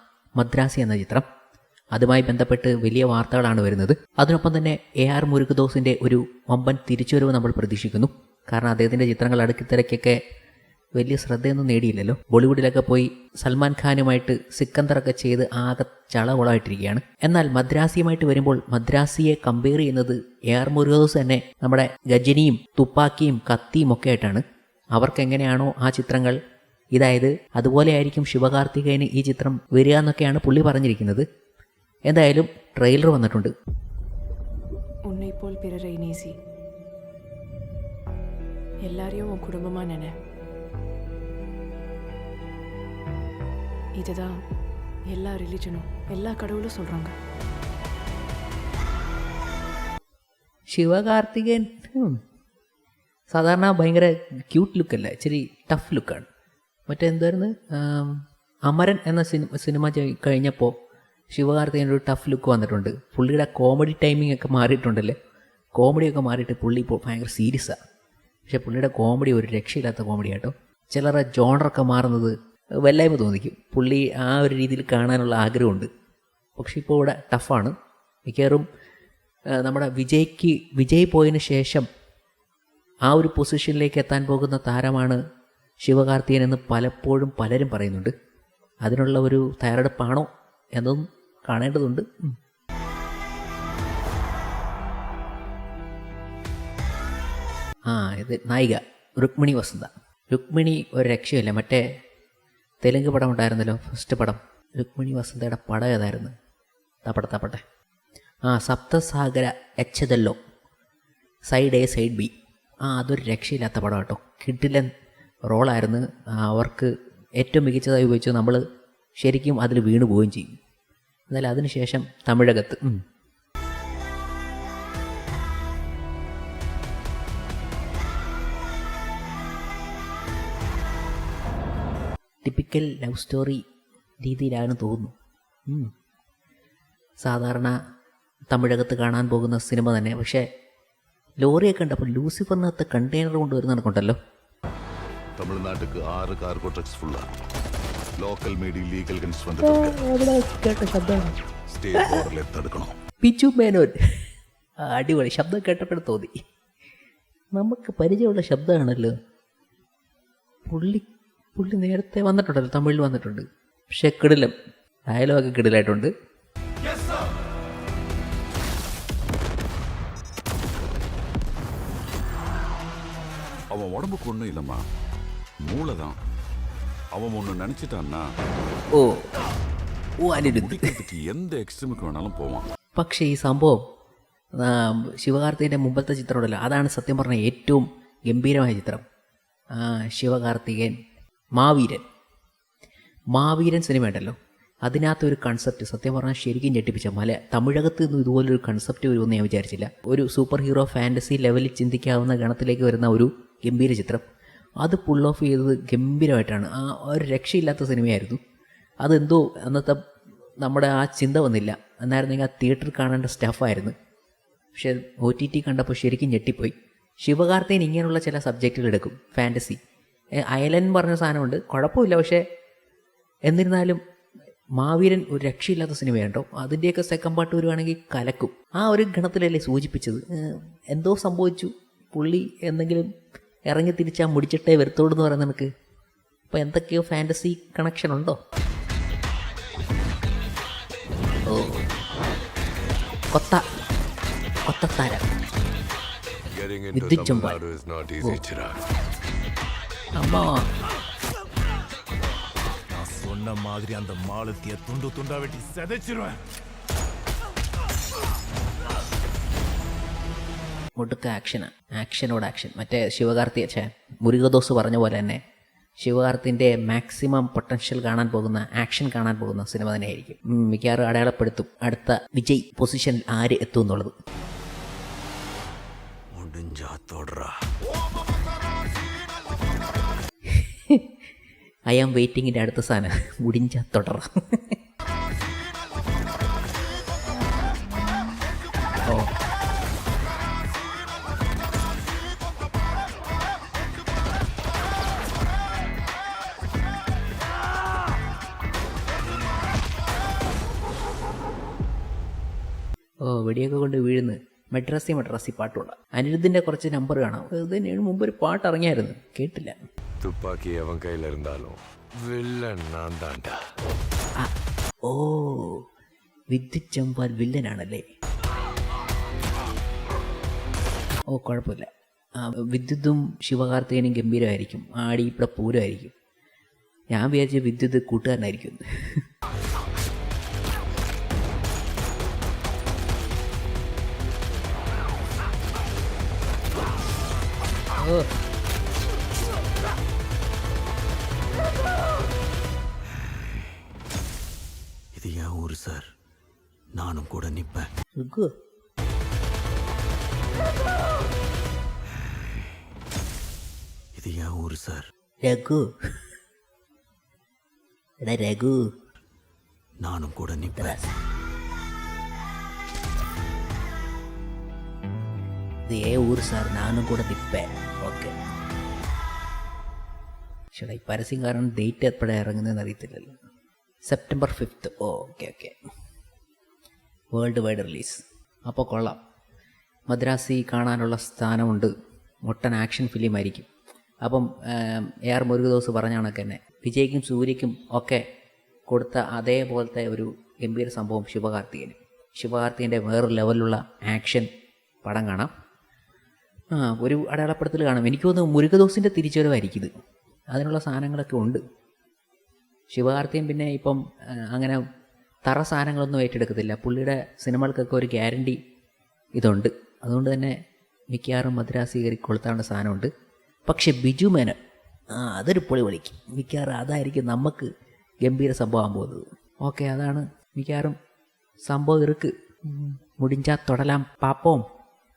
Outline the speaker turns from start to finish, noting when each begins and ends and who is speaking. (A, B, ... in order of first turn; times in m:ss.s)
0:00.4-0:01.2 A
0:01.9-0:10.2 A
0:11.0-0:24.4 A
0:24.9-0:26.4 A
0:26.9-0:31.2 A
0:32.1-0:33.5 A
0:35.1-0:36.3 B
0:38.8-0:40.1 B
0:44.0-0:44.3 B
0:45.1-0:47.1 B
0:50.7-0:52.2 A
0:53.3-0:56.2 A
0:56.9-1:00.7 A
1:01.3-1:05.1 A
1:05.8-1:07.7 A
1:08.5-1:12.3 A
1:12.8-1:15.9 A
1:16.6-1:17.7 A
1:18.3-1:18.6 A
1:19.6-1:21.8 A
1:23.1-1:25.2 A
1:25.8-1:28.1 A
1:28.8-1:32.3 A
1:37.9-1:41.8 A
1:42.8-1:46.3 A
1:47.0-1:47.6 A
1:48.5-1:50.4 A
1:51.5-1:52.3 A
1:52.8-1:54.9 A
1:55.5-1:58.6 A
1:59.2-2:00.6 A
2:01.3-2:03.0 A
2:12.4-2:13.6 A
2:14.2-2:15.1 A
2:17.2-2:17.7 A
2:18.5-2:20.4 A
2:21.4-2:24.2 A
2:25.5-2:27.2 C
2:28.4-2:29.4 C
2:29.6-2:31.3 A
2:31.7-2:32.9 C
2:31.9-2:32.3 A
2:33.2-2:33.9 A
2:34.8-2:36.3 A
2:37.5-2:39.1 A
2:40.6-2:41.0 A
2:41.6-2:44.5 A
2:45.1-2:46.1 A
2:53.7-2:54.8 C
2:55.6-2:56.2 C
2:57.1-2:58.2 C
2:58.9-2:59.2 A
3:00.2-3:01.0 A
3:00.3-3:02.7 C
3:03.0-3:03.8 A
3:04.6-3:09.0 A
3:09.7-3:10.9 A
3:11.6-3:12.0 A
3:13.3-3:24.2 A
3:24.8-3:28.4 A
3:29.0-3:30.0 A
3:30.6-3:33.9 A
3:34.7-3:39.8 A
3:40.4-3:42.4 A
3:43.5-3:44.0 A
3:44.8-3:53.0 A
3:53.7-3:55.7 A
3:56.5-3:58.4 A
4:01.5-4:01.8 A
4:03.3-4:03.6 A
4:04.7-4:05.3 A
4:06.5-4:08.7 D
4:06.9-4:07.6 A
4:10.2-4:10.6 A
4:12.9-4:16.4 E
4:21.0-4:25.4 A
4:26.0-4:34.1 A
4:36.4-4:37.5 F
4:40.5-4:41.0 A
4:41.9-4:44.6 A
5:03.2-5:09.7 A
5:10.2-5:13.6 D
5:15.0-5:15.8 A
5:16.5-5:18.0 A
5:21.3-5:21.9 A
5:22.4-5:26.1 A
5:27.1-5:29.2 A
5:38.0-5:38.2 A
5:45.2-5:46.0 F
5:47.0-5:47.9 F
5:48.2-5:48.5 A
5:54.2-5:55.0 F
5:55.4-5:55.8 A
5:58.2-5:58.7 A
6:00.0-6:00.9 F
6:00.7-6:01.1 A
6:05.9-6:08.4 A
6:10.7-6:13.3 A
6:14.0-6:15.7 A
6:17.3-6:19.2 A
6:20.1-6:21.9 A
6:22.4-6:23.7 A
6:24.2-6:28.2 A
6:28.9-6:34.5 A
6:35.0-6:35.5 A
6:36.7-6:39.9 A
6:40.5-6:41.6 A
6:42.9-6:44.0 A
6:44.5-6:44.8 A
6:45.4-6:48.6 A
6:49.4-6:50.5 A
6:51.1-6:53.1 A
6:53.6-6:54.6 A
6:55.2-6:57.7 A
6:58.2-7:00.9 A
7:01.6-7:04.6 A